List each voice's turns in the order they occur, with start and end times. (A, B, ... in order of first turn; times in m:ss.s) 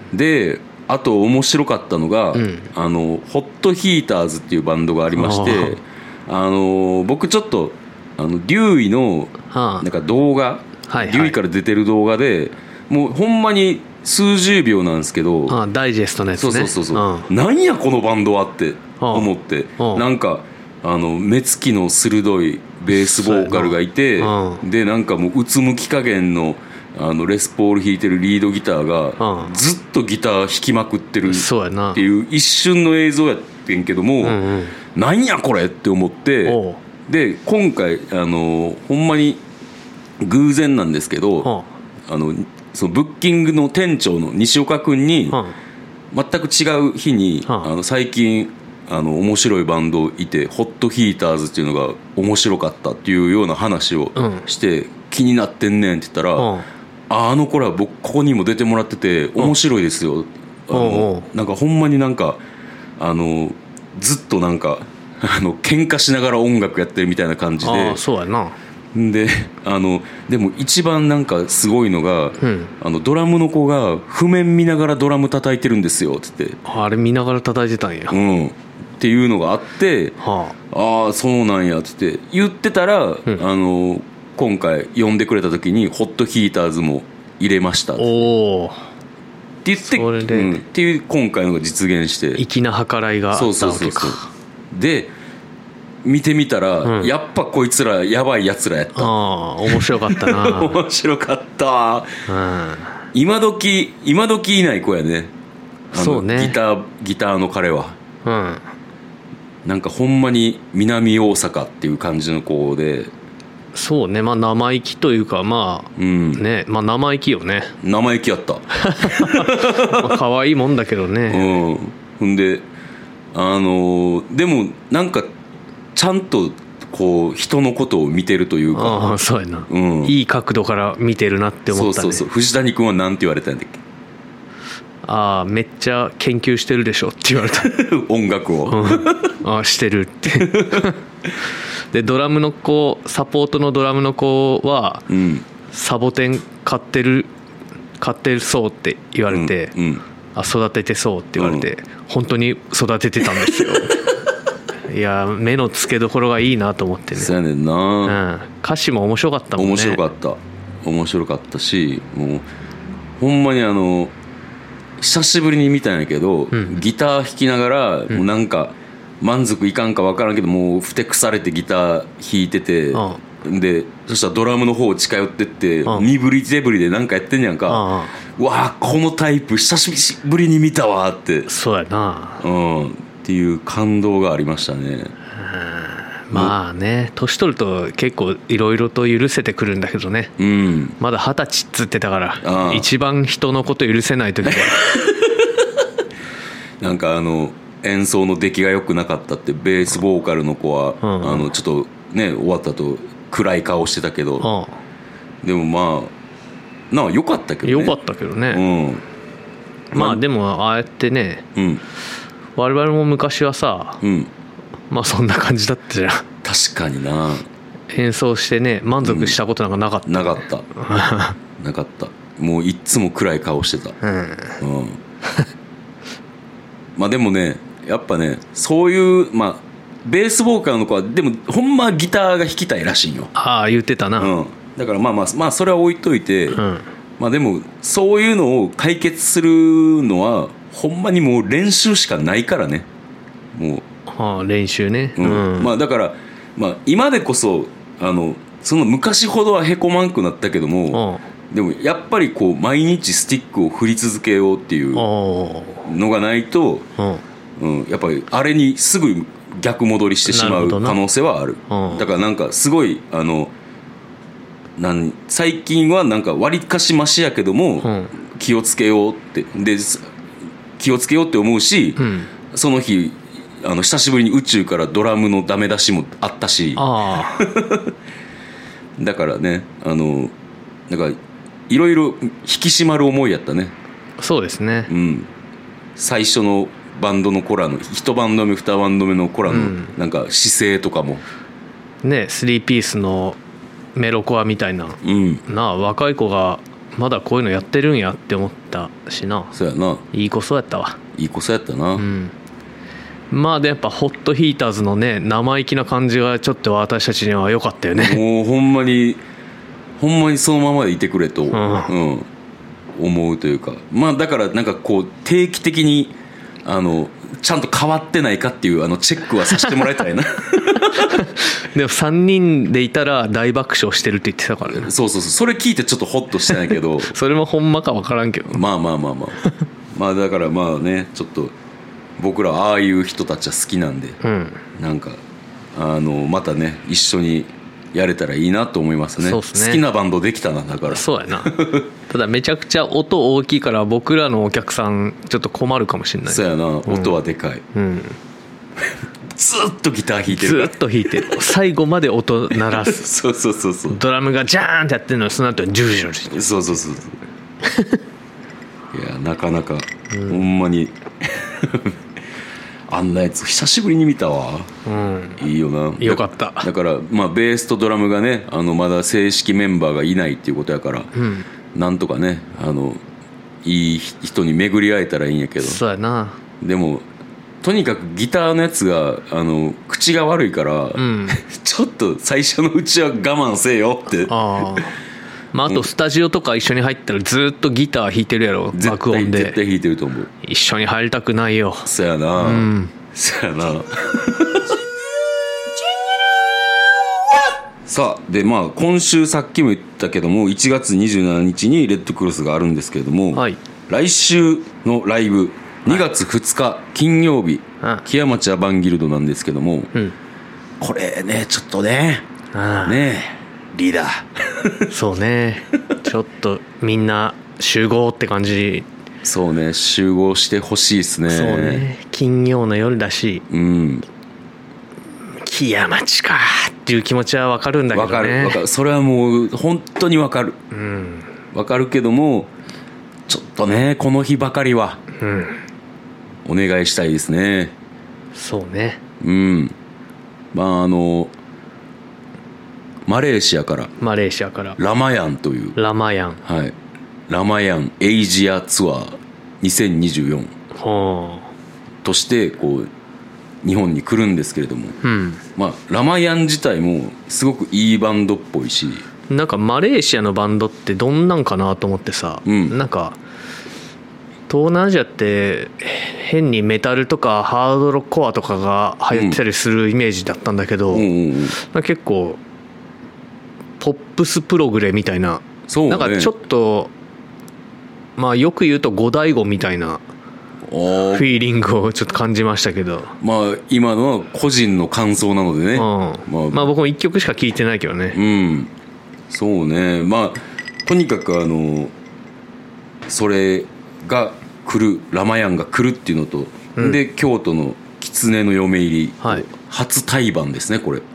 0:00.1-0:15.6 A
0:02.3-0:02.7 B
0:05.1-0:05.8 B
0:09.5-0:09.8 B
0:10.9-0:11.3 B
0:15.5-0:17.3 B
0:16.4-0:34.4 A
0:19.0-0:20.0 B
0:22.9-0:24.6 B
0:29.2-0:29.5 B
0:31.2-0:32.0 B
0:34.2-0:34.8 B
0:34.9-0:39.4 A
0:36.4-0:36.8 B
0:40.2-0:41.5 A
0:42.1-0:45.4 A
0:46.1-0:56.5 A
0:54.2-0:54.5 B
0:56.4-0:56.6 B
0:57.1-1:02.4 A
1:00.7-1:01.3 B
1:03.0-1:08.0 A
1:07.6-1:08.6 B
1:08.9-1:16.6 A
1:12.4-1:12.7 B
1:16.6-1:18.2 B
1:18.1-1:20.2 A
1:20.2-1:20.5 B
1:20.7-1:28.2 A
1:28.0-1:28.8 B
1:29.6-1:32.4 A
1:29.8-1:30.6 B
1:32.4-1:34.3 B
1:33.3-1:34.2 A
1:34.7-1:35.1 A
1:36.0-1:39.1 A
1:36.8-1:37.1 B
1:38.9-1:40.8 B
1:39.6-1:42.2 A
1:42.3-1:43.0 B
1:43.1-1:45.3 A
1:45.9-1:46.6 B
1:45.9-1:48.0 A
1:48.2-1:48.6 B
1:49.6-1:53.1 A
1:53.7-1:57.7 B
1:56.0-1:56.4 A
1:57.8-2:00.2 A
1:58.7-2:01.5 B
2:01.3-2:02.6 A
2:03.3-2:05.3 A
2:05.9-2:09.0 A
2:08.7-2:12.2 B
2:09.7-2:10.1 A
2:11.7-2:13.8 A
2:15.0-2:17.7 B
2:17.5-2:19.3 A
2:18.7-2:21.0 B
2:20.3-2:20.9 A
2:21.9-2:25.1 B
2:25.1-2:25.4 A
2:25.7-2:27.3 B
2:28.0-2:29.7 B
2:29.3-2:30.0 A
2:30.3-2:34.1 B
2:31.4-2:31.7 A
2:33.4-2:33.9 A
2:34.9-2:37.3 B
2:37.1-2:38.2 A
2:38.0-2:40.0 B
2:39.6-2:42.4 A
2:43.2-2:44.1 A
2:45.0-3:01.5 A
2:46.5-2:46.8 B
2:52.9-2:53.2 B
2:57.7-2:58.2 B
3:01.5-3:02.4 B
3:02.4-3:05.1 A
3:05.4-3:10.3 B
3:10.4-3:11.0 A
3:11.0-3:14.8 B
3:12.4-3:12.9 A
3:14.4-3:15.7 A
3:16.8-3:24.4 A
3:21.0-3:21.5 B
3:24.4-3:24.8 B
3:25.4-3:26.1 A
3:26.9-3:28.0 A
3:27.6-3:28.6 B
3:28.5-3:29.0 A
3:29.9-3:31.4 B
3:29.9-3:30.2 A
3:31.5-3:31.8 A
3:32.6-3:34.0 B
3:34.0-3:34.3 A
3:34.9-3:36.2 B
3:36.4-3:37.5 A
3:37.9-3:41.4 B
3:39.0-3:39.4 A
3:40.0-3:40.6 A
3:41.6-3:44.0 A
3:44.0-3:44.6 B
3:44.6-3:45.0 A
3:47.0-3:53.3 A
3:53.3-3:54.3 B
3:54.2-3:56.6 A
3:56.5-3:56.8 B
3:57.2-4:02.9 A
4:03.5-4:03.8 A
4:04.1-4:05.7 B
4:05.2-4:15.0 A
4:10.9-4:11.2 B
4:14.9-4:15.9 B
4:15.8-4:16.8 A
4:17.0-4:17.2 B
4:17.6-4:23.5 A
4:20.2-4:21.0 B
4:21.7-4:22.0 B
4:24.8-4:30.1 A
4:27.8-4:28.1 B
4:30.8-4:37.9 A
4:32.0-4:32.3 B
4:36.8-4:37.4 B
4:39.0-4:40.3 A
4:40.9-4:41.2 A
4:41.7-4:43.7 A
4:44.2-4:44.9 B
4:44.9-4:45.3 A
4:46.0-4:51.2 A
4:49.5-4:49.9 B
4:52.0-4:53.4 B
4:53.9-4:59.5 B
4:55.0-4:55.4 A
4:59.5-5:00.0 A
5:00.1-5:01.0 B
5:01.1-5:02.0 A
5:02.0-5:02.3 B
5:03.3-5:08.2 B
5:08.0-5:09.2 A
5:10.0-5:12.3 A
5:11.5-5:11.9 B
5:13.0-5:16.1 A
5:16.6-5:21.2 A
5:20.8-5:24.9 B
5:24.6-5:27.1 A
5:26.5-5:28.6 B
5:28.5-5:29.4 A
5:29.9-5:31.5 A
5:32.2-5:34.2 A
5:34.2-5:34.6 B
5:34.7-5:35.2 A
5:35.7-5:41.8 A
5:39.2-5:39.8 B
5:40.9-5:47.1 B
5:46.3-5:47.6 A
5:47.7-5:48.2 B
5:49.3-5:51.3 A
5:50.3-5:53.1 B
5:52.5-5:54.0 A
5:53.9-5:56.4 B
5:56.3-5:57.2 A
5:57.6-5:58.0 B
5:58.9-6:02.0 A
6:00.1-6:00.4 B
6:02.9-6:04.7 A
6:04.8-6:05.4 B
6:05.4-6:11.1 A
6:06.0-6:06.7 B
6:11.1-6:11.4 B
6:11.7-6:13.0 A
6:13.6-6:15.8 A
6:15.6-6:16.4 B
6:16.6-6:17.0 A
6:17.6-6:24.8 A
6:21.0-6:21.4 B
6:24.3-6:25.0 B
6:25.5-6:29.6 B
6:28.7-6:30.3 A
6:30.4-6:32.9 B
6:31.8-6:34.8 A
6:37.8-6:49.9 A
6:43.3-6:43.6 B
6:50.8-6:52.2 A
6:52.5-6:53.0 B
6:52.8-6:54.9 A
6:54.9-6:58.8 B
6:59.2-7:01.8 A
7:01.3-7:03.4 B
7:03.5-7:04.0 A
7:05.4-7:08.6 B
7:07.9-7:10.6 A
7:10.7-7:11.3 B
7:11.5-7:12.5 A
7:13.3-7:15.0 A
7:15.2-7:15.6 B
7:16.4-7:17.7 A
7:18.3-7:19.0 B
7:19.2-7:19.7 A
7:20.5-7:21.3 A
7:23.0-7:23.9 A
7:24.0-7:24.8 B
7:24.8-7:25.8 A
7:25.8-7:26.4 B
7:26.4-7:26.8 A
7:27.3-7:30.5 A
7:30.7-7:31.5 B
7:32.0-7:32.9 A
7:33.6-7:35.0 A
7:35.0-7:35.4 B
7:35.6-7:39.0 A
7:39.3-7:43.2 B
7:42.4-7:42.7 A
7:44.5-7:52.4 B
7:49.1-7:49.4 A
7:50.9-7:51.5 A
7:53.8-7:56.9 B
7:55.7-7:56.3 A
7:58.2-8:00.0 B
8:00.7-8:01.3 A
8:01.1-8:03.1 B
8:03.2-8:06.7 A
8:05.7-8:08.2 B
8:08.1-8:08.7 A
8:09.3-8:11.9 A
8:13.0-8:21.0 A